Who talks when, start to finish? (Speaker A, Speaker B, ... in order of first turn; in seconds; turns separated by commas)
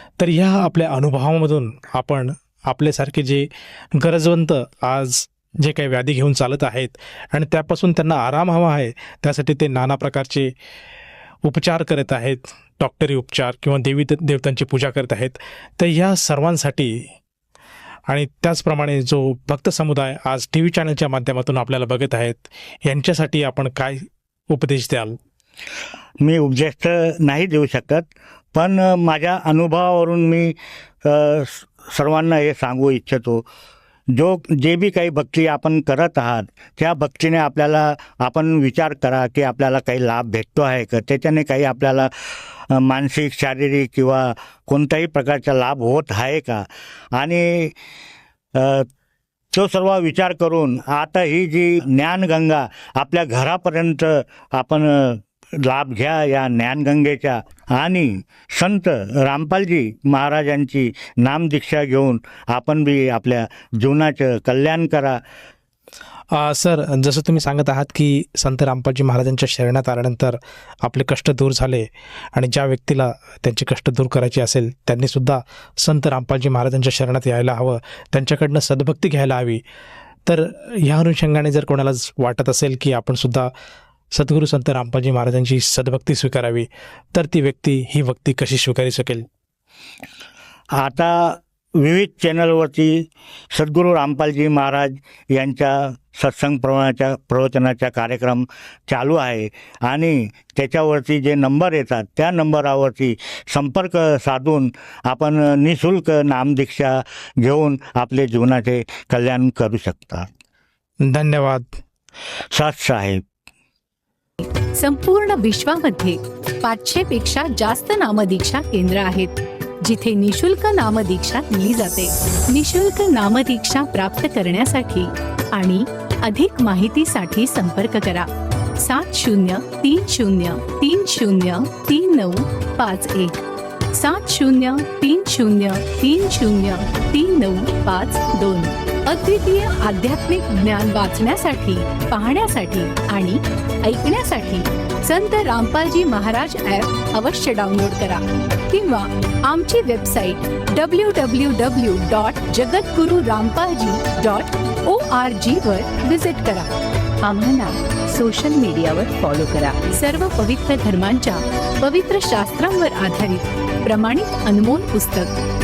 Speaker A: 0.2-10.5, Speaker A: 11.4-17.1, Speaker A: 18.1-25.2, Speaker B: 26.2-33.4, Speaker B: 34.1-42.1, Speaker B: 42.7-47.8, Speaker B: 48.6-48.9, Speaker B: 49.5-65.2, Speaker A: 66.3-79.6, Speaker A: 80.3-83.5, Speaker A: 84.1-89.3, Speaker B: 90.8-92.9, Speaker B: 93.5-110.3, Speaker A: 111.0-111.7, Speaker B: 112.5-113.2, Speaker C: 114.4-133.4, Speaker C: 133.9-156.7, Speaker C: 157.2-165.3